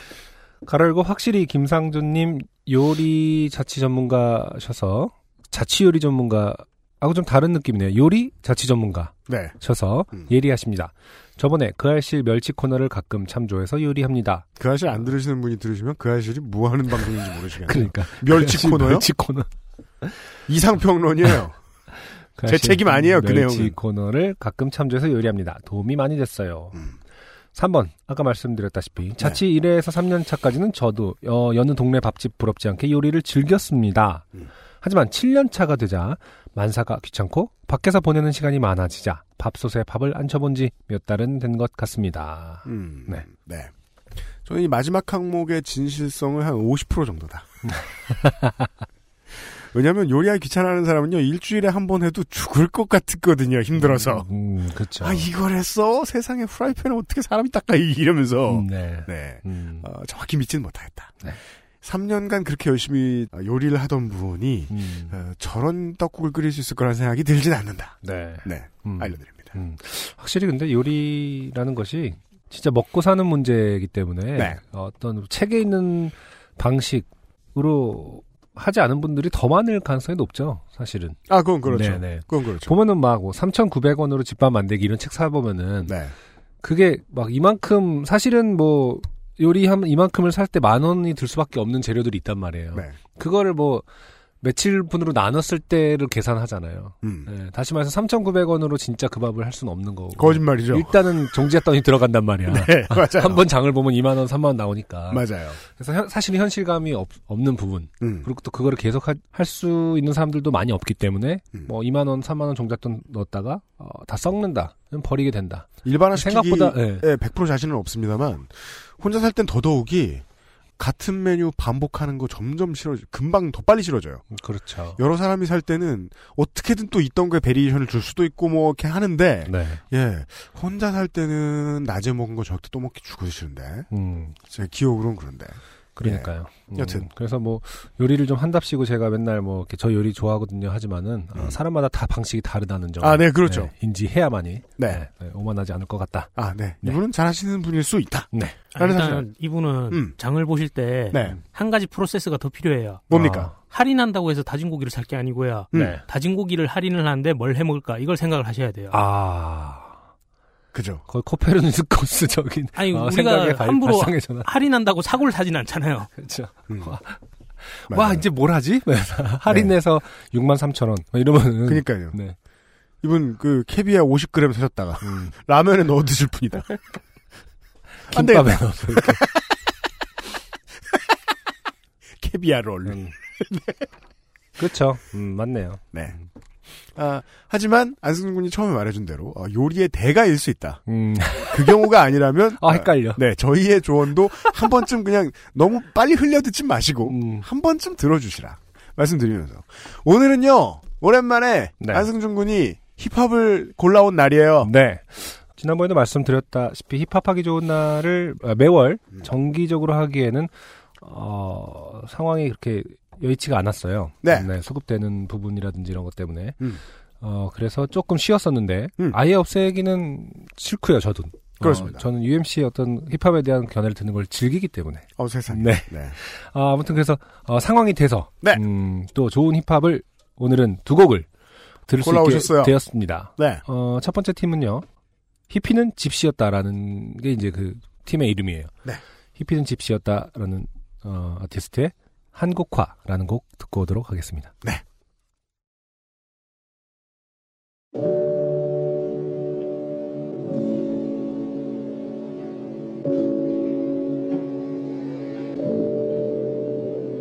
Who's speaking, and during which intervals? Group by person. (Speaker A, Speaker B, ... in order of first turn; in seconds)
Speaker A: 0.6-15.1, 17.6-19.5, 22.4-26.8, 27.5-43.2, 47.6-48.7, 53.8-55.3, 58.5-59.9, 64.7-65.2, 68.0-86.0, 86.6-93.8, 94.4-117.0, 124.3-125.0, 129.4-129.8, 133.9-134.3, 135.9-147.0, 148.3-148.6, 153.1-153.5, 155.7-156.0, 158.9-160.0, 161.1-164.5, 166.2-172.3, 175.0-175.3, 178.1-179.2, 182.8-183.1, 184.6-185.9, 190.9-191.9, 192.6-193.2, 197.1-197.5, 201.8-202.1, 204.6-216.6, 217.2-231.3, 231.9-234.8, 235.5-238.7, 239.3-244.5
Speaker B: 9.3-9.6, 14.6-19.1, 20.5-21.6, 22.4-23.7, 42.6-43.7, 44.4-47.6, 49.3-54.3, 55.0-61.3, 61.8-69.5, 74.3-74.6, 81.3-82.7, 85.9-86.1, 97.0-97.3, 100.2-101.0, 102.5-103.4, 105.1-105.6, 108.0-108.3, 115.8-120.2, 120.8-124.2, 125.0-133.9, 134.4-137.1, 143.0-143.7, 144.8-145.0, 146.3-149.2, 149.9-150.2, 151.1-151.4, 153.1-153.5, 155.7-156.0, 160.7-161.0, 166.7-167.0, 167.9-168.2, 169.5-169.7, 171.6-172.2, 173.0-176.7, 178.1-179.4, 182.2-183.8, 186.9-190.8, 191.4-204.7, 214.2-214.5, 221.6-222.0, 225.2-226.2, 232.0-232.8, 233.4-233.6
Speaker C: 148.7-159.0, 162.8-166.1